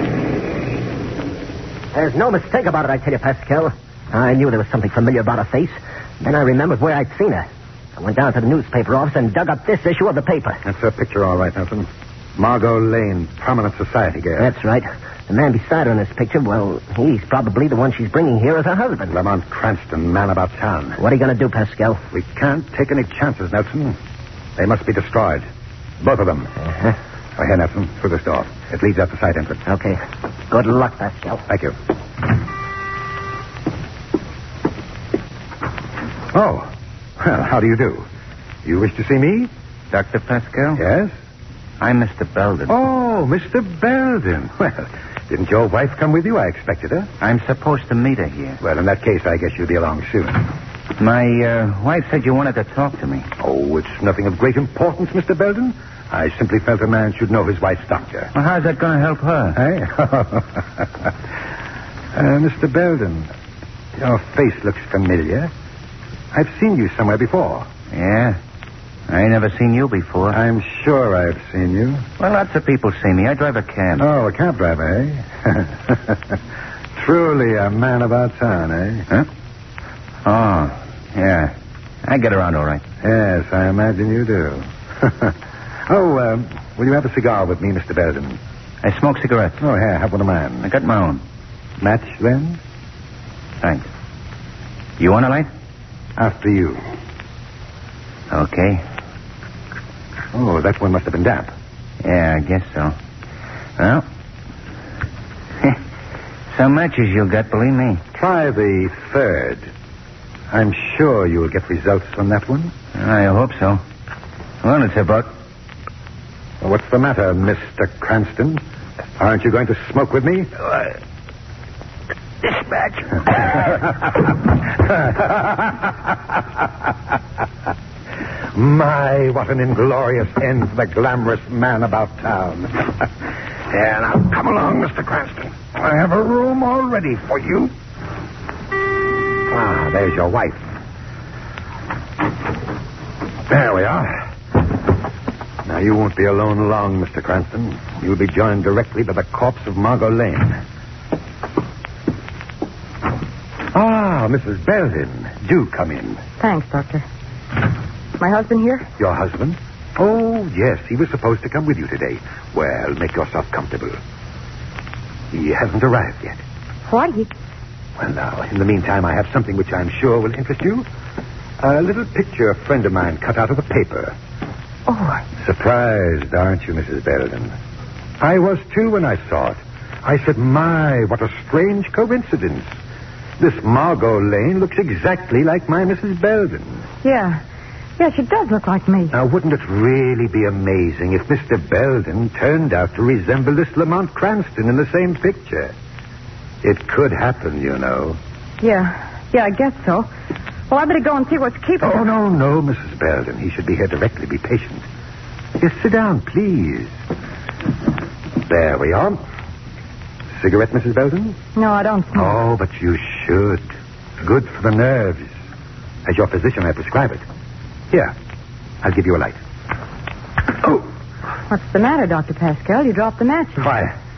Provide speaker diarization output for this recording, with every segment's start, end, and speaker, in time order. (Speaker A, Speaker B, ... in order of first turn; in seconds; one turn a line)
Speaker A: 1.9-10.6
Speaker B: 10.6-14.5
Speaker A: 14.4-19.2
Speaker B: 19.1-21.0
Speaker A: 21.0-22.0
Speaker B: 22.1-24.0
Speaker B: 24.6-25.5
Speaker B: 26.0-26.5
Speaker B: 27.4-29.6
Speaker A: 29.7-31.4
Speaker B: 31.5-31.8
Speaker B: 36.3-38.0
Speaker B: 38.6-39.5
Speaker C: 39.9-40.8
Speaker B: 40.7-41.1
Speaker C: 41.8-42.8
Speaker B: 42.7-47.1
Speaker C: 47.2-48.6
Speaker B: 48.6-50.5
Speaker C: 51.0-53.3
Speaker B: 53.4-58.3
Speaker C: 58.3-59.6
Speaker B: 59.5-60.9
Speaker B: 62.1-63.3
Speaker B: 64.0-65.5
Speaker B: 66.3-67.7
Speaker C: 67.9-68.4
Speaker C: 69.1-70.4
Speaker B: 70.3-72.1
Speaker C: 72.2-74.0
Speaker B: 74.0-76.4
Speaker B: 77.0-79.1
Speaker C: 80.2-81.5
Speaker C: 82.0-82.8
Speaker B: 83.0-85.3
Speaker B: 85.9-88.4
Speaker C: 88.8-89.6
Speaker B: 89.6-90.7
Speaker C: 90.6-91.2
Speaker B: 91.8-92.6
Speaker C: 95.0-95.5
Speaker B: 96.2-96.8
Speaker C: 98.3-98.8
Speaker B: 100.3-101.5
Speaker C: 102.0-103.0
Speaker C: 103.8-104.0
Speaker C: 106.5-108.0
Speaker B: 108.1-109.7
Speaker B: 110.5-112.7
Speaker C: 112.9-113.8
Speaker C: 114.6-115.3
Speaker B: 116.6-118.6
Speaker B: 119.2-120.9
Speaker B: 122.4-126.4
Speaker B: 128.5-137.7
Speaker B: 139.5-140.6
Speaker B: 143.5-144.3
Speaker B: 145.6-150.6
Speaker B: 153.7-156.2
Speaker D: 156.4-157.0
Speaker D: 158.2-158.9
Speaker B: 159.0-164.0
Speaker B: 165.3-166.4
Speaker D: 166.9-167.3
Speaker B: 168.0-170.8
Speaker B: 171.6-174.2
Speaker D: 174.9-175.2
Speaker B: 175.4-177.5
Speaker B: 178.2-182.7
Speaker B: 183.4-186.8
Speaker D: 187.0-187.4
Speaker D: 188.0-189.1
Speaker B: 189.1-195.7
Speaker B: 196.6-198.2
Speaker D: 198.6-200.1
Speaker D: 200.7-202.1
Speaker B: 201.8-204.8
Speaker B: 205.6-206.9
Speaker B: 208.4-209.2
Speaker B: 210.3-211.4
Speaker D: 211.5-212.4
Speaker B: 212.1-213.7
Speaker B: 214.2-215.3
Speaker B: 216.0-217.2
Speaker B: 218.8-219.4
Speaker D: 221.5-223.7
Speaker B: 223.6-223.9